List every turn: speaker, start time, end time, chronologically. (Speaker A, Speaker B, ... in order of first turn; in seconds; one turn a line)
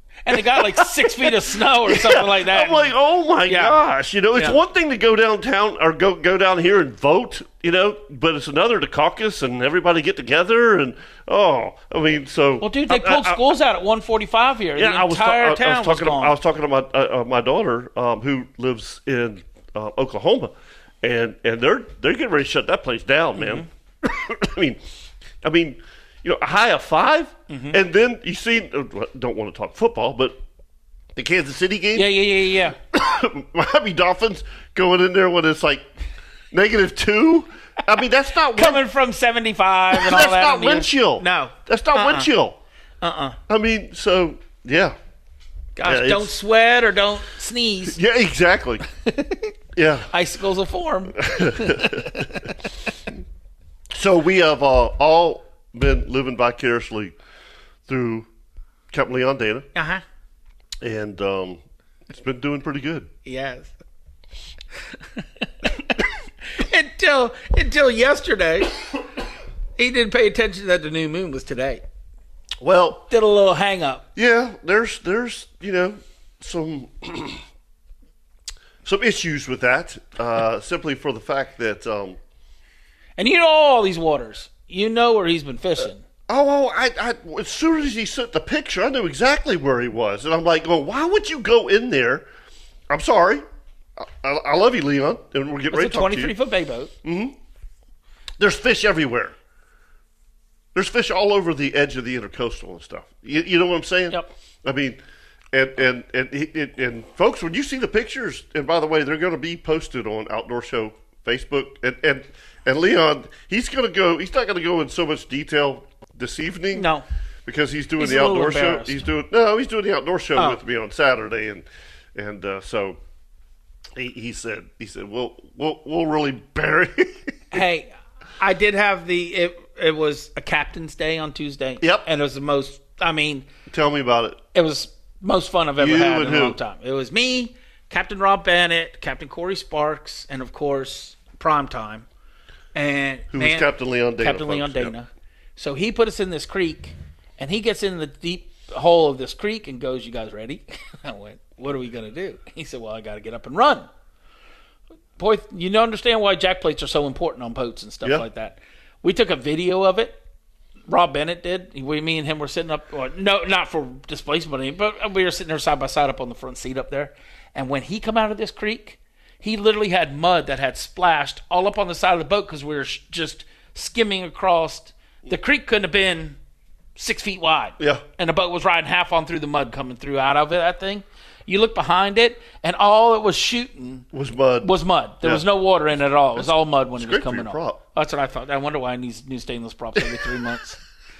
Speaker A: 0.2-2.9
Speaker B: 0.3-13.4
Speaker A: 3.5-3.8
Speaker A: 12.6-16.3
Speaker B: 14.8-24.8
Speaker A: 23.4-23.7
Speaker B: 25.4-30.4
Speaker A: 27.5-27.8
Speaker B: 31.1-32.2
Speaker A: 31.9-32.8
Speaker B: 32.8-35.9
Speaker B: 36.5-38.9
Speaker A: 38.6-42.3
Speaker B: 39.9-42.6
Speaker A: 43.0-43.4
Speaker B: 43.5-45.0
Speaker A: 45.8-48.0
Speaker B: 45.8-46.3
Speaker B: 47.9-48.8
Speaker A: 49.0-49.5
Speaker B: 49.8-50.1
Speaker A: 50.1-52.5
Speaker B: 51.1-52.3
Speaker B: 53.9-57.1
Speaker B: 57.9-58.3
Speaker B: 58.9-59.7
Speaker A: 59.8-60.0
Speaker B: 60.8-63.1
Speaker A: 63.3-63.7
Speaker A: 65.2-68.8
Speaker A: 69.8-71.8
Speaker B: 72.6-73.0
Speaker A: 73.1-74.0
Speaker B: 74.2-77.4
Speaker B: 78.8-82.2
Speaker A: 83.2-86.0
Speaker B: 86.3-92.3
Speaker B: 92.9-93.4
Speaker B: 94.0-96.3
Speaker A: 95.7-96.9
Speaker B: 97.0-97.3
Speaker B: 98.4-99.4
Speaker B: 100.7-105.0
Speaker B: 105.5-116.9
Speaker A: 116.7-117.0
Speaker B: 117.5-123.0
Speaker A: 118.0-119.0
Speaker B: 124.0-127.3
Speaker A: 127.5-133.5
Speaker B: 131.8-132.1
Speaker B: 133.7-134.4
Speaker A: 134.5-142.1
Speaker B: 135.8-136.6
Speaker A: 142.7-153.9
Speaker B: 143.3-144.9
Speaker A: 155.2-160.2
Speaker A: 160.9-176.4
Speaker A: 177.0-184.1
Speaker B: 177.8-178.0
Speaker B: 184.1-185.5
Speaker A: 184.6-190.8
Speaker B: 186.4-187.8